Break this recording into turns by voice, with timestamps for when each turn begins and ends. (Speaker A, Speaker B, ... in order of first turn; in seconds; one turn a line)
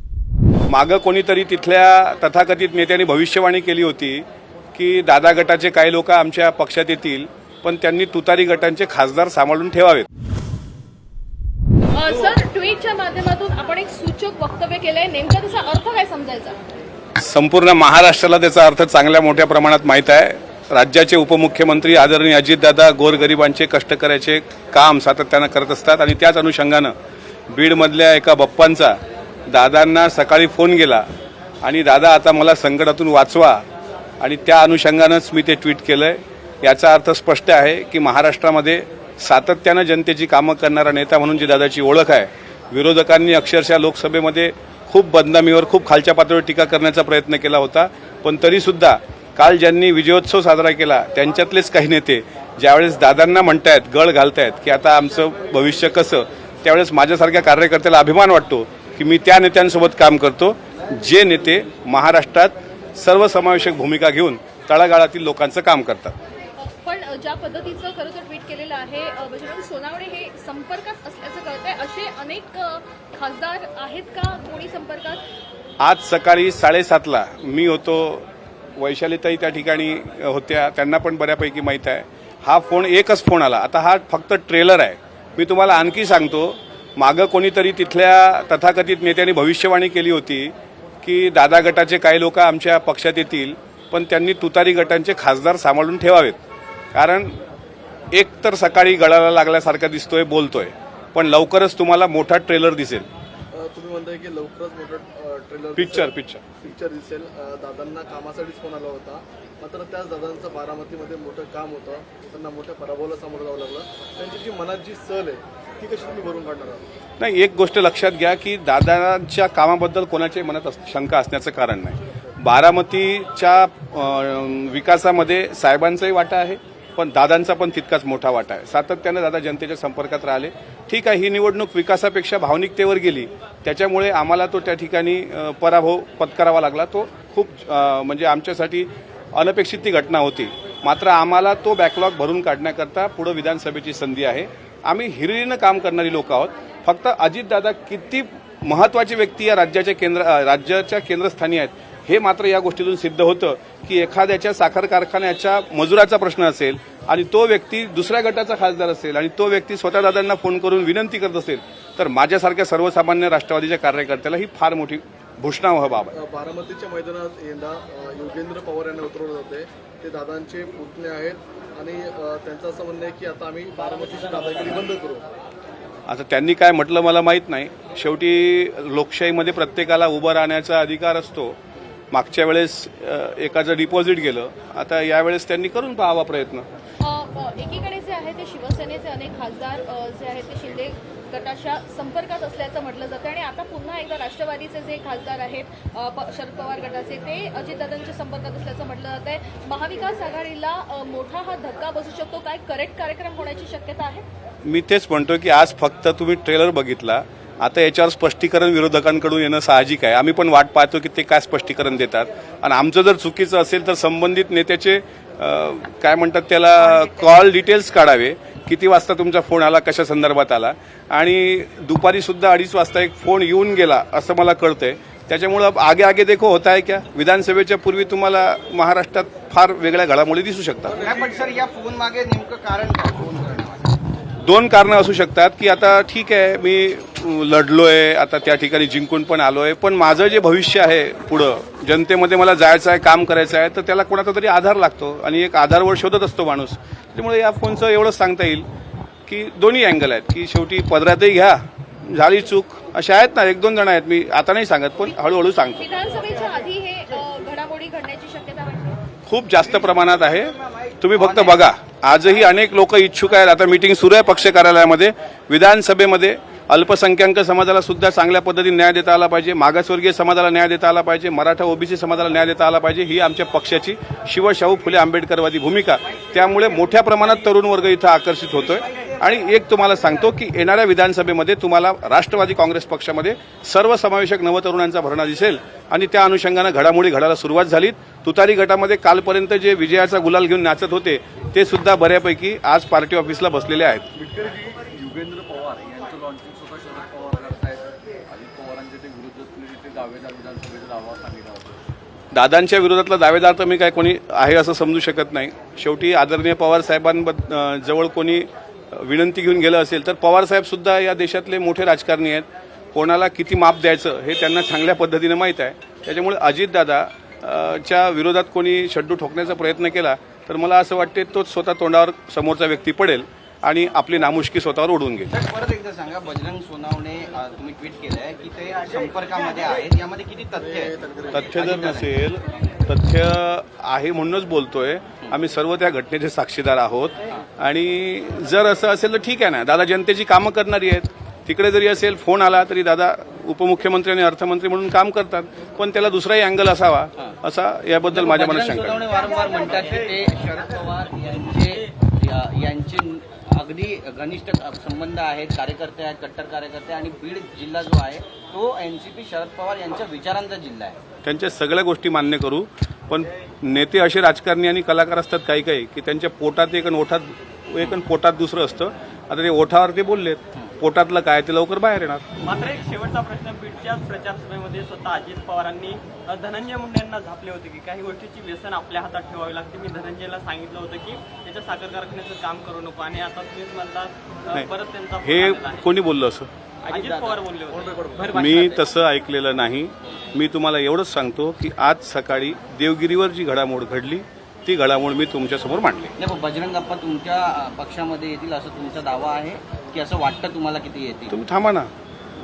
Speaker A: 0.7-10.1
Speaker B: 11.9-16.6
Speaker A: 17.2-26.9
Speaker A: 27.5-29.0
Speaker A: 29.5-31.1
Speaker A: 31.6-33.6
Speaker A: 34.2-66.2
Speaker B: 66.6-75.2
Speaker A: 75.8-96.4
Speaker A: 96.9-97.4
Speaker A: 98.1-103.1
Speaker C: 103.5-116.8
Speaker A: 105.8-106.4
Speaker A: 117.2-166.1
Speaker C: 166.1-175.2
Speaker A: 176.1-181.6
Speaker A: 182.1-186.7
Speaker B: 187.0-204.2
Speaker A: 204.7-231.0
Speaker D: 231.0-233.9
Speaker A: 234.4-248.7
Speaker A: 249.3-255.9
Speaker B: 255.8-259.0
Speaker A: 259.3-294.1
Speaker D: 260.4-261.7
Speaker E: 294.2-301.8
Speaker A: 302.3-325.3
Speaker D: 325.3-332.2
Speaker C: 330.6-331.3
Speaker A: 331.3-349.1
Speaker D: 348.0-361.0
Speaker A: 361.2-372.2
Speaker F: 372.4-385.9
Speaker A: 385.2-386.5
Speaker F: 386.9-388.8
Speaker D: 386.9-387.4
Speaker C: 387.7-388.3
Speaker A: 388.3-396.1
Speaker D: 388.3-388.7
Speaker D: 396.2-401.4
Speaker A: 401.3-401.9